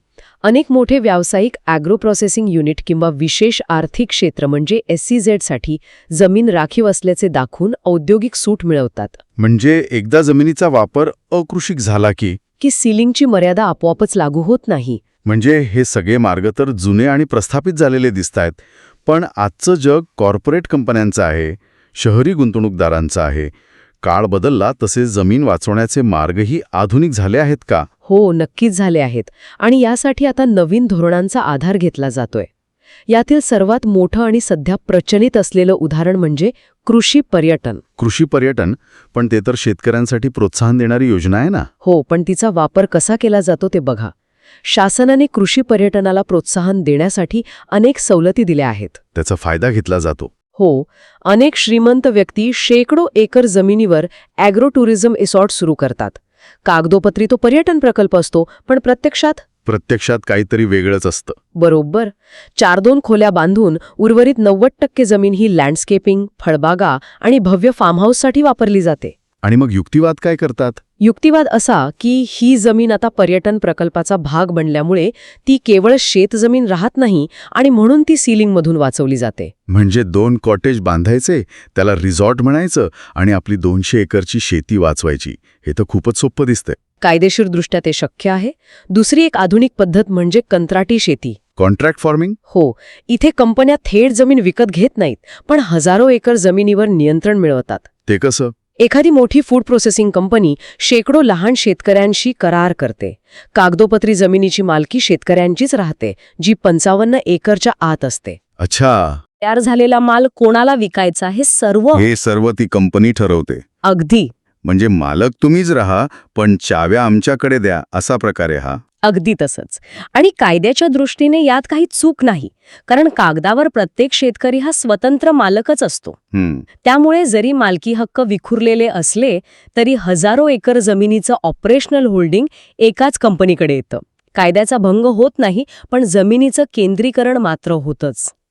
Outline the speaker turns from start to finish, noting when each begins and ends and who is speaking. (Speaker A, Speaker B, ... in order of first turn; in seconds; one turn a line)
Speaker A: 0.4-9.2
Speaker B: 9.4-12.4
Speaker A: 12.6-15.0
Speaker B: 15.2-27.9
Speaker A: 28.1-32.5
Speaker A: 33.1-37.8
Speaker B: 38.0-41.7
Speaker A: 41.8-44.1
Speaker A: 44.6-49.0
Speaker B: 49.1-50.3
Speaker A: 50.6-59.4
Speaker B: 59.6-61.4
Speaker A: 61.6-69.2
Speaker B: 69.4-70.8
Speaker A: 71.0-79.5
Speaker B: 79.7-86.8
Speaker A: 87.0-91.4
Speaker B: 91.6-92.4
Speaker A: 92.5-97.9
Speaker B: 98.1-98.5
Speaker A: 98.8-108.4
Speaker B: 108.6-109.2
Speaker A: 109.4-112.0
Speaker B: 111.9-113.6
Speaker A: 113.8-114.3
Speaker B: 114.6-118.8
Speaker A: 119.0-126.2
Speaker B: 126.3-126.7
Speaker A: 126.8-138.3